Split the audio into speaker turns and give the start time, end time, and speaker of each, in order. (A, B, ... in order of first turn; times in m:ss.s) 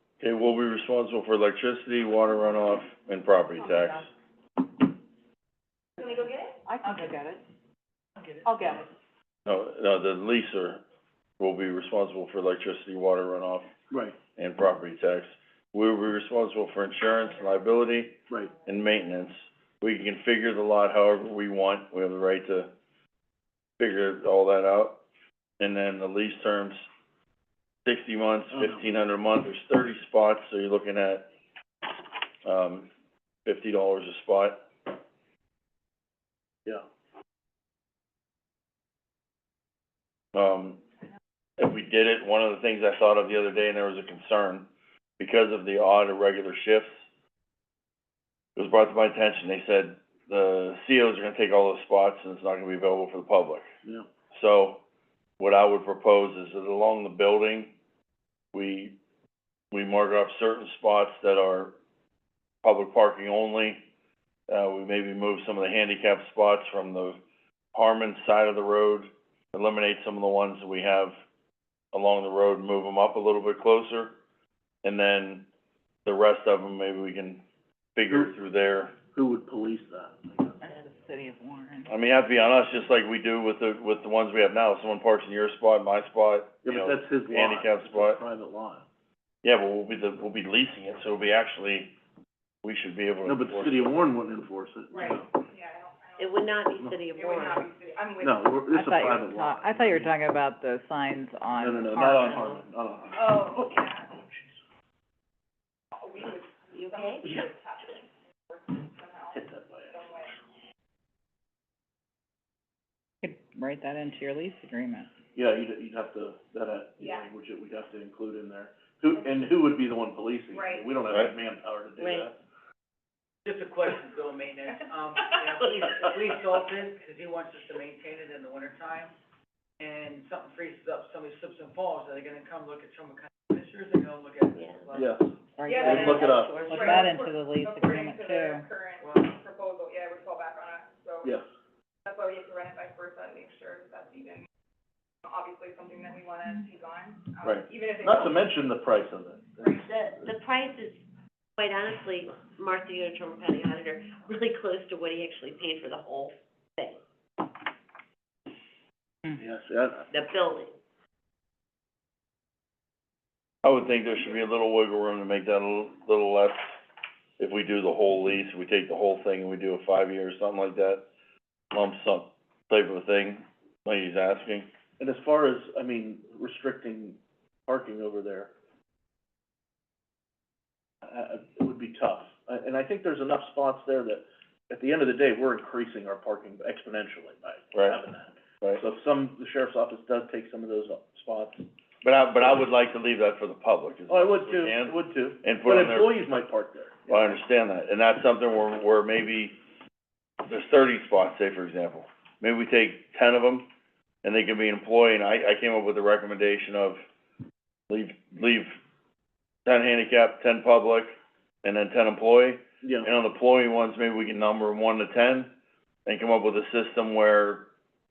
0:00.2-0:04.1 A
0:06.0-0:06.7 B
0:06.7-0:07.4 C
0:06.8-0:07.2 D
0:08.2-0:08.8 D
0:08.4-0:08.8 C
0:09.4-0:10.8 A
0:11.4-0:13.7 A
0:13.9-0:14.2 E
0:14.4-0:22.7 A
0:23.8-0:25.0 A
0:25.6-0:26.8 A
0:27.8-0:31.3 A
0:28.5-0:28.8 E
0:32.4-0:32.9 A
0:33.4-0:34.6 A
0:40.3-0:40.8 A
0:41.6-0:44.7 A
0:45.2-0:46.9 A
0:48.6-0:53.6 A
0:54.3-0:54.8 A
0:55.4-0:57.7 A
0:58.5-0:59.0 A
0:59.7-1:01.8 A
1:02.6-1:03.8 A
1:04.5-1:07.2 A
1:07.7-1:11.1 A
1:11.9-1:14.2 A
1:14.8-1:15.5 A
1:16.0-1:17.4 A
1:18.0-1:18.9 A
1:19.1-1:20.6 E
1:20.6-1:21.9 C
1:21.9-1:28.2 A
1:26.6-1:28.8 E
1:29.4-1:31.9 A
1:32.6-1:33.9 A
1:33.2-1:35.3 E
1:34.9-1:36.5 B
1:36.2-1:37.7 F
1:37.1-1:38.7 B
1:38.2-1:40.1 E
1:38.7-1:42.6 C
1:41.6-1:44.5 E
1:43.1-1:44.1 B
1:45.9-1:50.4 B
1:46.7-1:47.4 F
1:49.3-1:50.0 E
1:53.2-1:55.1 C
1:55.3-2:02.4 E
1:57.0-1:57.3 B
2:00.5-2:00.9 B
2:02.0-2:02.3 F
2:03.4-2:09.1 D
2:09.8-2:15.9 D
2:14.5-2:14.9 F
2:14.9-2:16.9 E
2:15.6-2:18.7 C
2:15.7-2:21.4 B
2:19.0-2:19.4 D
2:22.0-2:24.5 B
2:25.2-2:28.5 B
2:27.4-2:30.3 E
2:29.6-2:37.0 F
2:39.4-2:40.1 E
2:40.1-2:40.8 F
2:43.6-2:46.7 A
2:47.4-2:51.0 A
2:51.7-2:54.7 A
2:55.0-2:58.5 E
3:01.0-3:11.7 E
3:12.0-3:16.1 A
3:14.1-3:17.4 E
3:17.1-3:19.6 A
3:20.4-3:23.7 A
3:24.2-3:27.0 A
3:27.9-3:28.7 A
3:29.6-3:35.5 A
3:32.8-3:33.1 E
3:36.0-3:37.7 A